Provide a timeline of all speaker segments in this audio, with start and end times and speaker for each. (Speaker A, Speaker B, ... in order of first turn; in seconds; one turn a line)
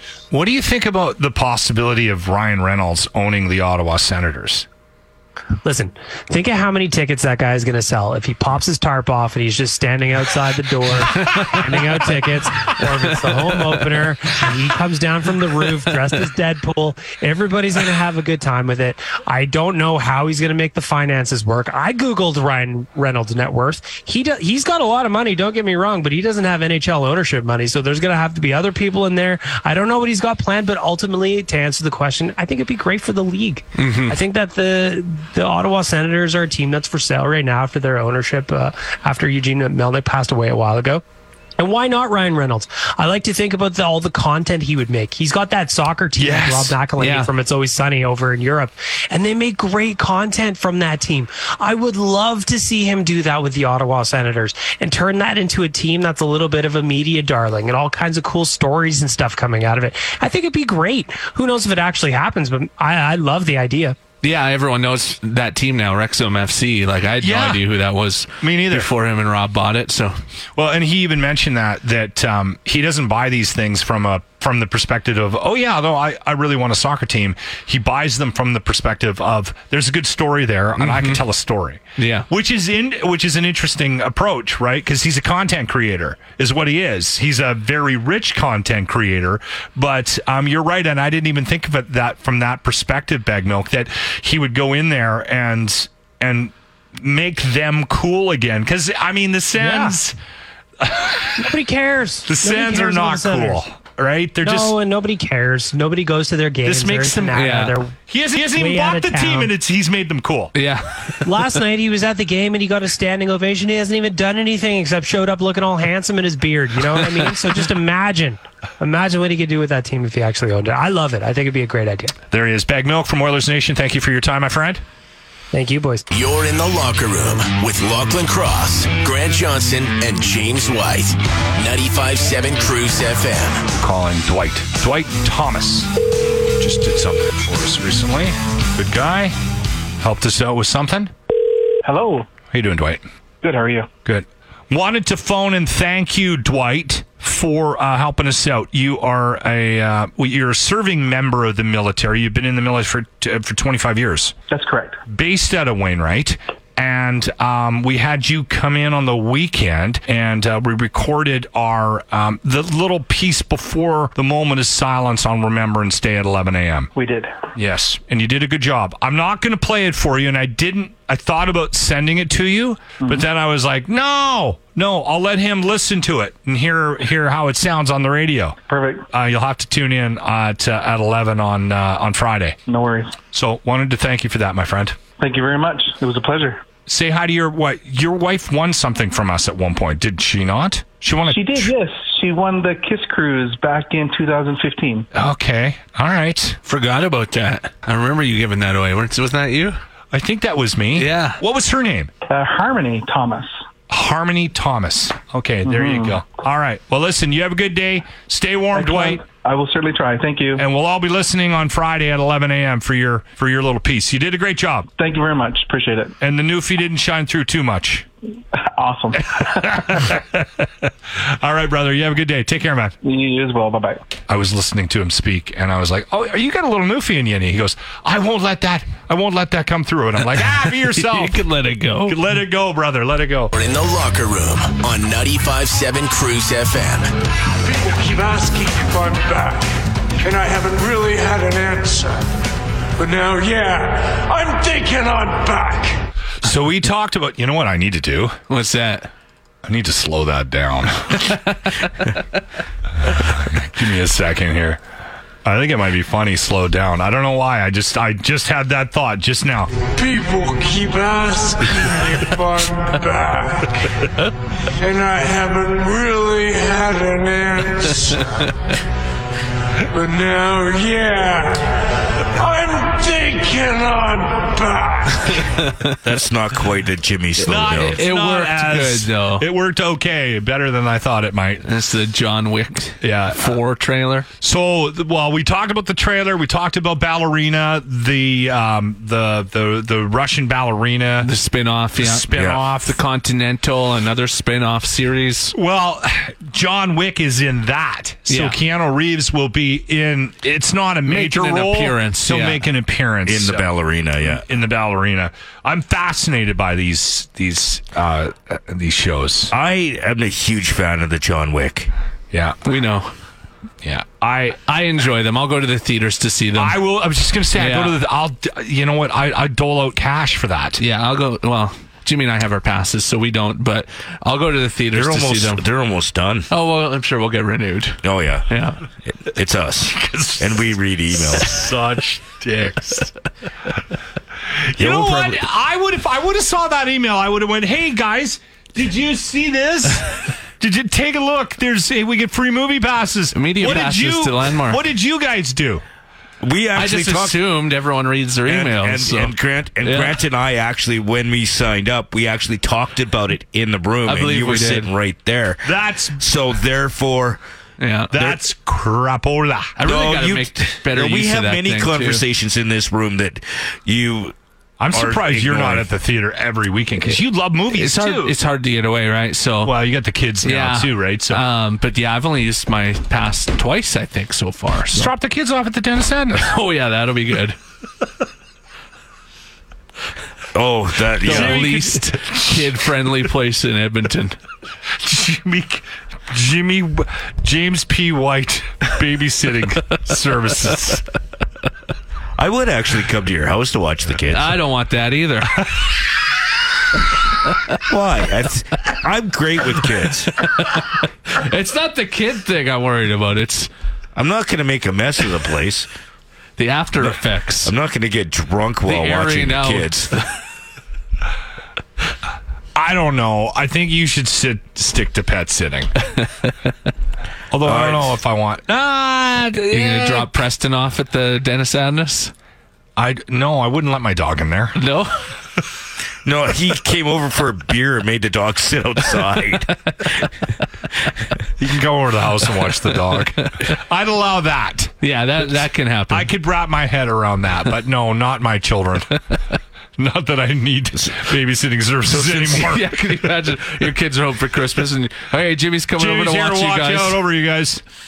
Speaker A: 0.3-4.7
Speaker B: 5.6-41.0
Speaker C: 11.2-11.5
Speaker C: 13.5-13.8
Speaker C: 33.8-34.2
Speaker B: 41.6-64.0
Speaker A: 46.1-46.8
Speaker C: 47.0-47.3
Speaker C: 64.2-70.2
Speaker A: 67.2-67.6
Speaker A: 68.4-68.9
Speaker A: 70.5-100.2
Speaker C: 80.8-81.2
Speaker C: 82.0-82.3
Speaker B: 99.6-99.9
Speaker A: 100.8-101.5
Speaker B: 101.4-103.6
Speaker A: 102.2-104.8
Speaker B: 104.4-109.5
Speaker A: 106.6-107.3
Speaker C: 107.3-107.8
Speaker A: 108.1-110.5
Speaker C: 110.5-111.3
Speaker B: 111.2-122.1
Speaker A: 122.3-124.8
Speaker B: 125.5-126.0
Speaker D: 126.1-133.6
Speaker A: 133.8-135.9
Speaker A: 136.6-139.3
Speaker A: 140.0-141.1
Speaker E: 141.8-142.3
Speaker A: 142.5-143.0
Speaker E: 143.4-143.9
Speaker A: 144.0-154.4
Speaker E: 154.5-155.0
Speaker A: 155.1-166.9
Speaker E: 166.9-167.3
Speaker A: 167.5-178.6
Speaker E: 178.7-179.1
Speaker A: 179.1-182.6
Speaker E: 182.7-183.1
Speaker A: 183.3-185.0
Speaker E: 185.2-186.6
Speaker A: 186.9-191.7
Speaker E: 191.3-195.1
Speaker A: 195.1-196.6
Speaker C: 196.6-199.8
Speaker A: 200.1-202.1
Speaker C: 200.9-201.4
Speaker E: 202.3-203.5
Speaker A: 203.9-209.2
Speaker E: 205.6-206.2
Speaker E: 208.7-210.6
Speaker A: 210.6-214.9
Speaker E: 215.0-216.1
Speaker A: 216.2-218.0
Speaker E: 218.8-219.3
Speaker A: 219.3-222.9
Speaker E: 223.0-224.0
Speaker A: 224.3-231.4
Speaker C: 230.9-232.2
Speaker A: 232.1-233.5
Speaker D: 233.5-237.1
Speaker F: 237.6-242.2
Speaker F: 243.0-246.0
Speaker A: 246.4-248.4
Speaker C: 248.5-249.1
Speaker A: 249.6-251.3
Speaker A: 253.1-254.8
Speaker A: 255.4-259.7
Speaker F: 259.9-263.9
Speaker F: 264.7-268.4
Speaker F: 269.9-271.7
Speaker F: 272.3-275.5
Speaker C: 275.6-275.9
Speaker G: 276.0-278.0
Speaker A: 277.4-281.6
Speaker C: 277.4-279.5
Speaker C: 281.6-284.3
Speaker A: 283.0-283.5
Speaker A: 284.4-291.3
Speaker C: 291.2-295.5
Speaker A: 292.0-292.8
Speaker G: 292.3-292.6
Speaker A: 295.5-303.7
Speaker C: 298.3-298.6
Speaker C: 301.1-302.7
Speaker G: 303.2-304.4
Speaker A: 304.2-309.5
Speaker G: 309.5-311.9
Speaker A: 312.3-312.6
Speaker C: 312.6-313.1
Speaker A: 313.8-314.6
Speaker C: 314.6-316.8
Speaker A: 316.6-320.8
Speaker C: 317.6-317.9
Speaker C: 320.8-325.6
Speaker G: 324.9-326.5
Speaker C: 326.5-328.8
Speaker G: 328.0-328.5
Speaker G: 329.1-331.6
Speaker A: 329.9-330.7
Speaker A: 331.3-333.1
Speaker A: 334.7-345.8
Speaker G: 334.8-335.4
Speaker C: 343.3-344.8
Speaker G: 346.4-347.4
Speaker C: 346.7-350.2
Speaker G: 348.4-357.4
Speaker C: 354.1-354.9
Speaker A: 355.6-356.2
Speaker C: 357.8-358.1
Speaker A: 358.1-359.8
Speaker C: 359.8-362.2
Speaker G: 359.8-364.3
Speaker A: 364.8-368.3
Speaker G: 364.9-365.9
Speaker C: 367.7-369.7
Speaker A: 369.6-371.4
Speaker C: 370.4-375.1
Speaker A: 374.9-376.5
Speaker C: 376.4-377.6
Speaker G: 380.5-381.6
Speaker C: 381.2-384.4
Speaker A: 381.2-382.7
Speaker A: 385.0-391.0
Speaker G: 392.4-394.6
Speaker C: 394.3-395.6
Speaker G: 397.9-400.3
Speaker C: 400.4-403.7
Speaker G: 404.1-405.9
Speaker C: 406.6-407.7
Speaker G: 407.6-410.1
Speaker C: 408.9-410.4
Speaker A: 412.8-415.9
Speaker A: 417.5-420.3
Speaker G: 417.6-418.1
Speaker C: 419.7-422.3
Speaker A: 422.9-424.8
Speaker C: 424.8-425.2
Speaker G: 426.2-429.7
Speaker A: 431.6-434.9
Speaker C: 435.0-436.3
Speaker A: 436.1-439.2
Speaker A: 440.0-442.8
Speaker C: 442.2-447.2
Speaker A: 446.0-447.8